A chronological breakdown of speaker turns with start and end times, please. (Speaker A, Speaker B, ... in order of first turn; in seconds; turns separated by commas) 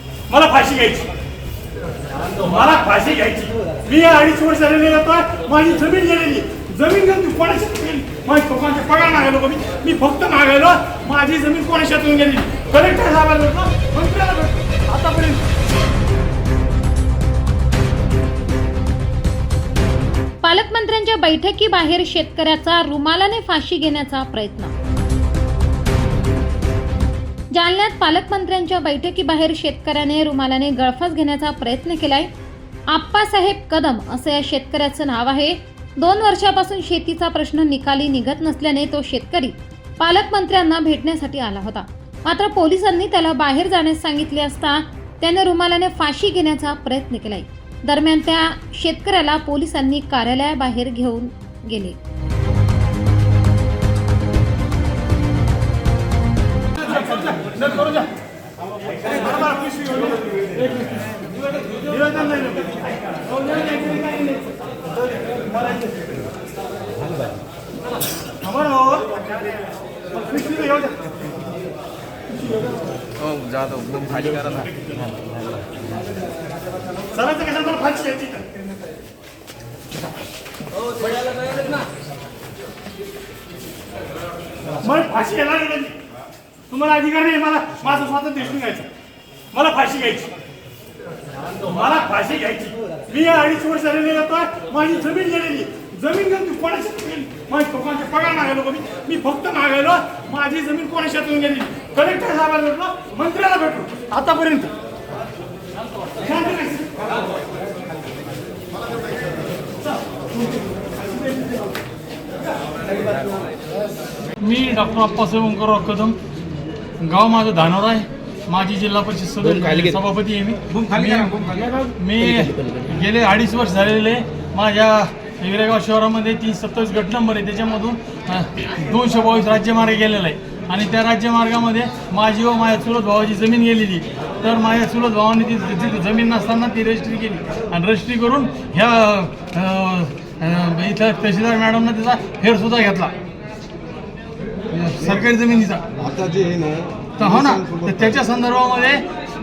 Speaker A: 0.3-1.1, Speaker A: 2.3-15.4, Speaker B: 20.4-24.7, Speaker B: 27.5-32.3, Speaker B: 32.9-52.0, Speaker A: 56.8-58.0, Speaker A: 59.1-60.1, Speaker A: 61.7-64.4, Speaker A: 68.3-69.2, Speaker A: 70.1-71.0, Speaker C: 73.2-74.8, Speaker A: 77.1-78.4, Speaker A: 84.8-86.0, Speaker A: 86.7-88.9, Speaker A: 89.5-90.3, Speaker A: 91.6-104.7, Speaker A: 106.2-106.9, Speaker A: 114.4-116.2, Speaker A: 117.0-143.1, Speaker C: 119.5-120.0, Speaker C: 120.7-122.9, Speaker A: 144.7-145.8, Speaker D: 146.0-148.0, Speaker A: 147.2-149.0